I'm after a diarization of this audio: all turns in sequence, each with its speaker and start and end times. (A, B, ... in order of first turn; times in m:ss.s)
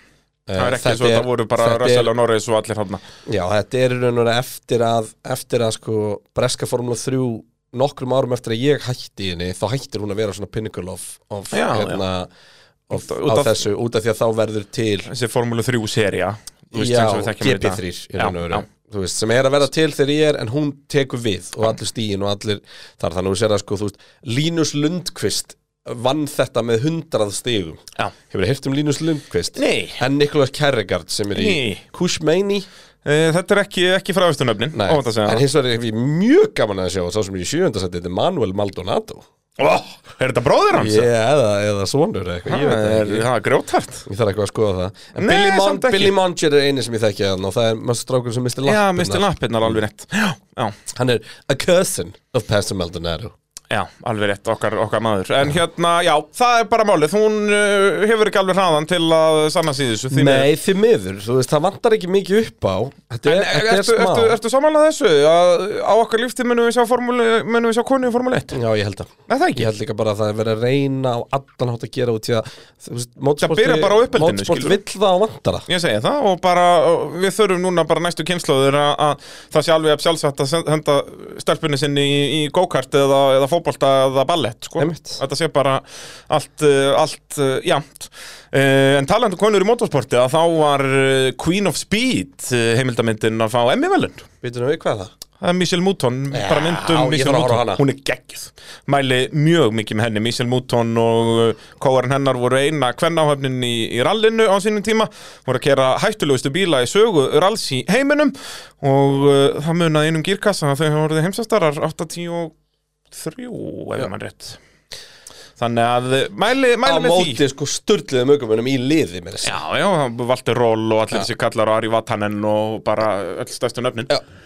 0:00.5-0:02.1 A
0:00.6-0:03.0 B
0:03.2-0:12.3 A
0:11.5-0:12.0 B
0:12.9-0:15.1 A
0:12.9-0:13.6 B
0:15.1-0:18.6 B
0:16.7-0:32.6 A
0:29.6-0:30.0 B
0:31.3-0:31.8 B
0:33.0-0:35.4 B
0:34.7-0:39.2 A
0:39.6-0:41.1 B
0:40.7-0:43.2 A
0:42.5-0:44.0 B
0:44.0-0:49.7 A
0:45.1-0:46.1 B
0:48.6-0:50.7 B
0:50.9-0:53.3 A
0:53.7-1:00.5 B
1:00.1-1:04.4 A
1:03.2-1:08.6 B
1:08.5-1:15.6 A
1:09.3-1:09.7 B
1:13.4-1:14.8 B
1:15.7-1:34.2 B
1:24.8-1:25.2 A
1:34.4-1:35.1 A
1:35.4-1:52.5 B
1:36.3-1:37.8 A
1:53.1-1:54.6 B
1:55.6-1:57.4 B
1:56.8-1:59.6 A
1:59.4-2:04.1 B